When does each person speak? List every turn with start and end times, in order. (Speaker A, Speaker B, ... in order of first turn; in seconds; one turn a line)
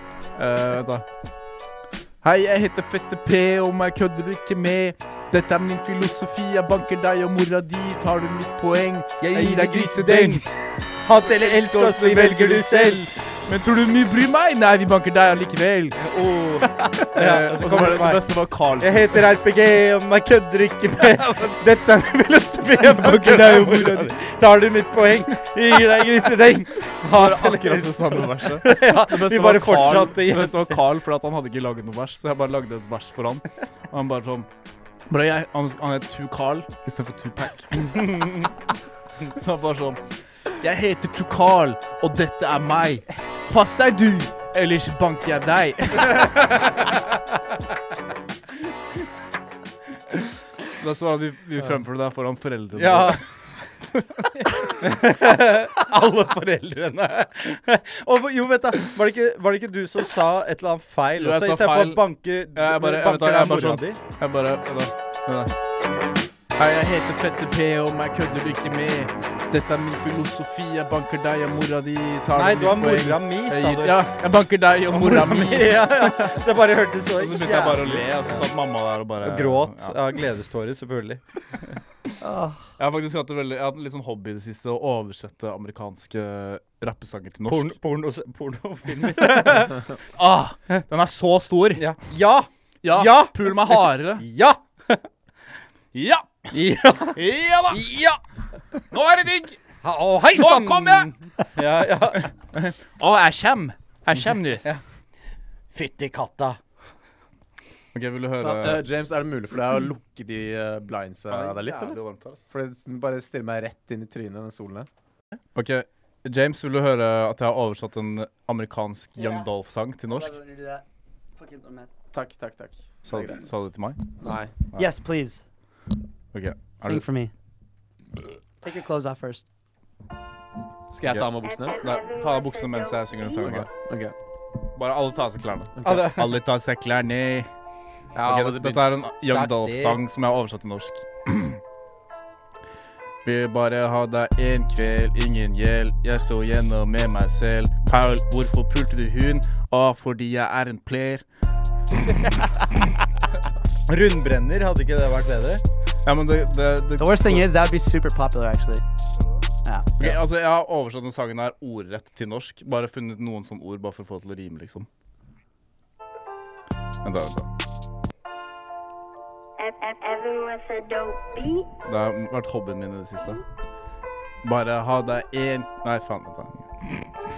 Speaker A: 0.3-1.0
Speaker A: 2.2-16.0
Speaker B: 9.2-10.4
Speaker B: 11.0-13.1
Speaker B: 16.0-18.2
Speaker A: 17.1-19.3
Speaker B: 18.8-30.8
Speaker A: 21.2-21.6
Speaker A: 22.8-24.1
Speaker A: 27.1-34.5
Speaker A: 35.1-38.4
Speaker B: 37.9-38.4
Speaker A: 39.3-40.0
Speaker A: 40.6-46.4
Speaker A: 50.8-53.2
Speaker B: 52.8-53.2
Speaker B: 54.3-64.0
Speaker A: 61.2-65.5
Speaker A: 66.6-76.4
Speaker B: 72.3-74.0
Speaker B: 74.9-78.5
Speaker A: 77.2-80.0
Speaker B: 79.2-81.8
Speaker C: 82.2-82.6
Speaker A: 82.8-87.7
Speaker B: 87.5-89.9
Speaker A: 90.1-91.9
Speaker B: 91.8-95.0
Speaker A: 92.8-94.2
Speaker A: 95.9-96.5
Speaker B: 96.5-98.2
Speaker A: 97.1-97.9
Speaker A: 98.9-99.6
Speaker B: 99.8-102.3
Speaker A: 100.3-101.1
Speaker A: 102.2-104.7
Speaker B: 105.7-106.6
Speaker A: 107.9-108.8
Speaker D: 108.4-112.0
Speaker A: 111.3-112.4
Speaker D: 112.5-114.9
Speaker A: 115.5-120.3
Speaker C: 119.2-119.4
Speaker C: 120.1-120.8
Speaker C: 121.4-121.9
Speaker D: 122.1-123.4
Speaker A: 123.0-124.0
Speaker D: 124.2-124.5
Speaker C: 124.8-125.4
Speaker A: 126.3-127.0
Speaker C: 126.8-127.3
Speaker C: 128.6-129.4
Speaker D: 130.9-131.8
Speaker A: 131.1-133.7
Speaker E: 131.4-133.5
Speaker D: 133.4-134.1
Speaker A: 134.7-137.5
Speaker D: 135.8-136.1
Speaker B: 135.8-136.3
Speaker D: 138.1-139.0
Speaker A: 138.2-141.6
Speaker B: 139.2-140.0
Speaker A: 143.2-151.2
Speaker B: 153.9-155.6
Speaker A: 156.0-157.5
Speaker C: 157.0-158.8
Speaker A: 160.0-164.9
Speaker A: 167.0-167.5
Speaker E: 169.6-171.7
Speaker A: 171.8-173.4
Speaker A: 174.4-177.1